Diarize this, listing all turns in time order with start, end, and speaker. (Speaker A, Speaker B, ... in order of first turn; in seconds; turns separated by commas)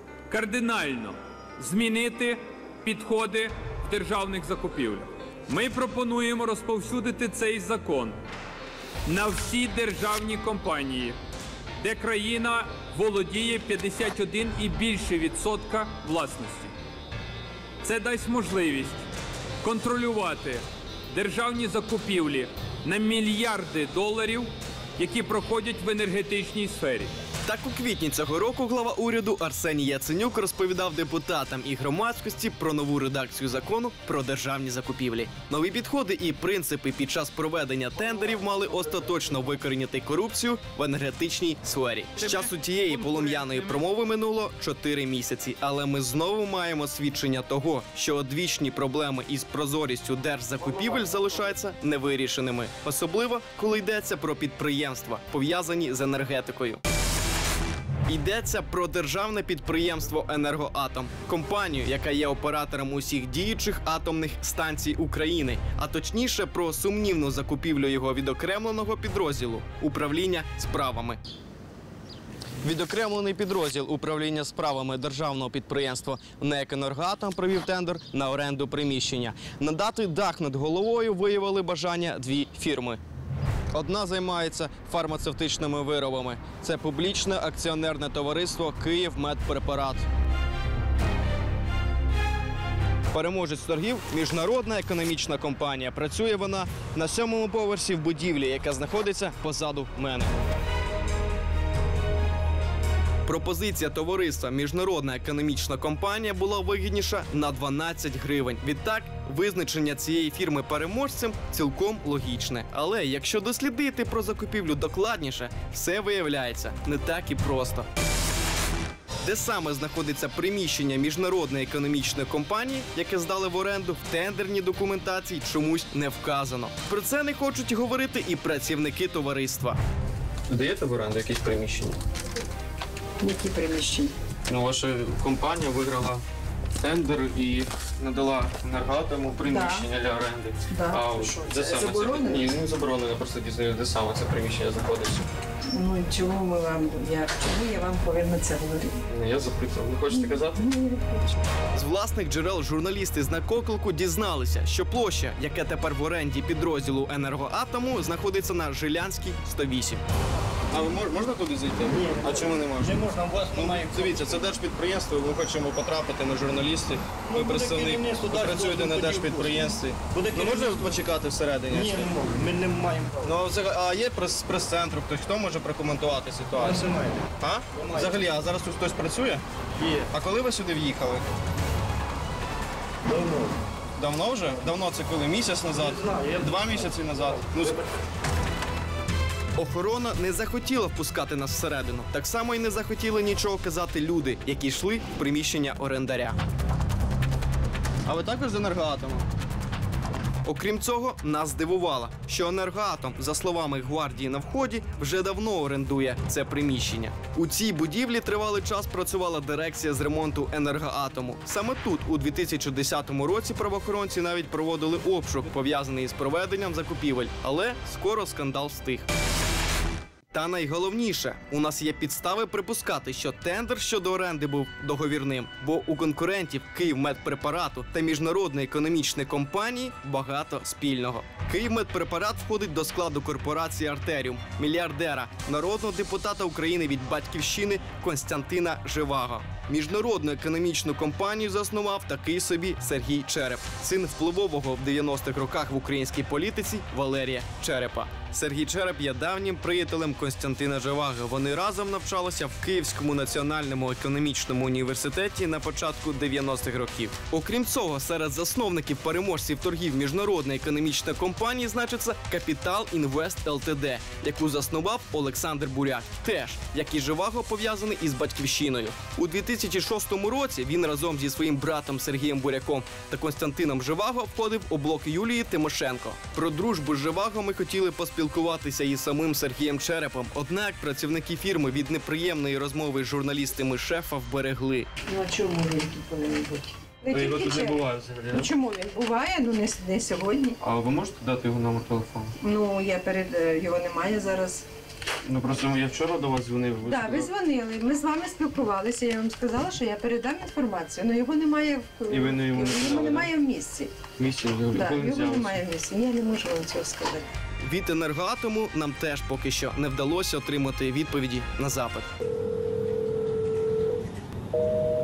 Speaker A: 0.3-8.2, Speaker A: 9.1-11.2, Speaker A: 11.8-16.7, Speaker A: 17.8-19.0, Speaker A: 19.6-27.1, Speaker B: 27.4-56.8, Speaker B: 58.1-71.2, Speaker B: 72.6-83.0, Speaker B: 83.7-90.0, Speaker B: 93.1-100.3, Speaker B: 103.2-117.9, Speaker B: 119.2-129.8, Speaker C: 130.5-132.0, Speaker D: 133.2-134.1, Speaker C: 134.5-136.2, Speaker C: 136.8-145.3, Speaker D: 139.4-139.9, Speaker D: 140.7-142.6, Speaker D: 145.7-149.0, Speaker C: 149.1-150.6, Speaker D: 150.1-151.3, Speaker B: 151.7-160.0, Speaker B: 160.7-163.0, Speaker E: 161.9-164.4, Speaker B: 163.5-172.2, Speaker E: 167.3-169.6, Speaker E: 170.1-170.9, Speaker E: 171.7-173.2, Speaker B: 173.2-179.4, Speaker E: 176.6-177.2, Speaker E: 177.8-178.2, Speaker B: 180.1-181.2, Speaker E: 183.1-183.5, Speaker B: 184.0-187.8, Speaker E: 185.9-186.3, Speaker B: 189.6-196.4, Speaker B: 198.1-199.2, Speaker B: 200.4-219.1, Speaker B: 220.3-284.9, Speaker D: 285.1-290.6, Speaker C: 287.1-288.4, Speaker C: 290.6-292.3, Speaker D: 292.4-294.6, Speaker C: 295.2-297.3, Speaker D: 296.8-304.0, Speaker C: 302.1-303.2, Speaker C: 304.2-305.5, Speaker D: 304.7-307.2, Speaker B: 307.6-312.1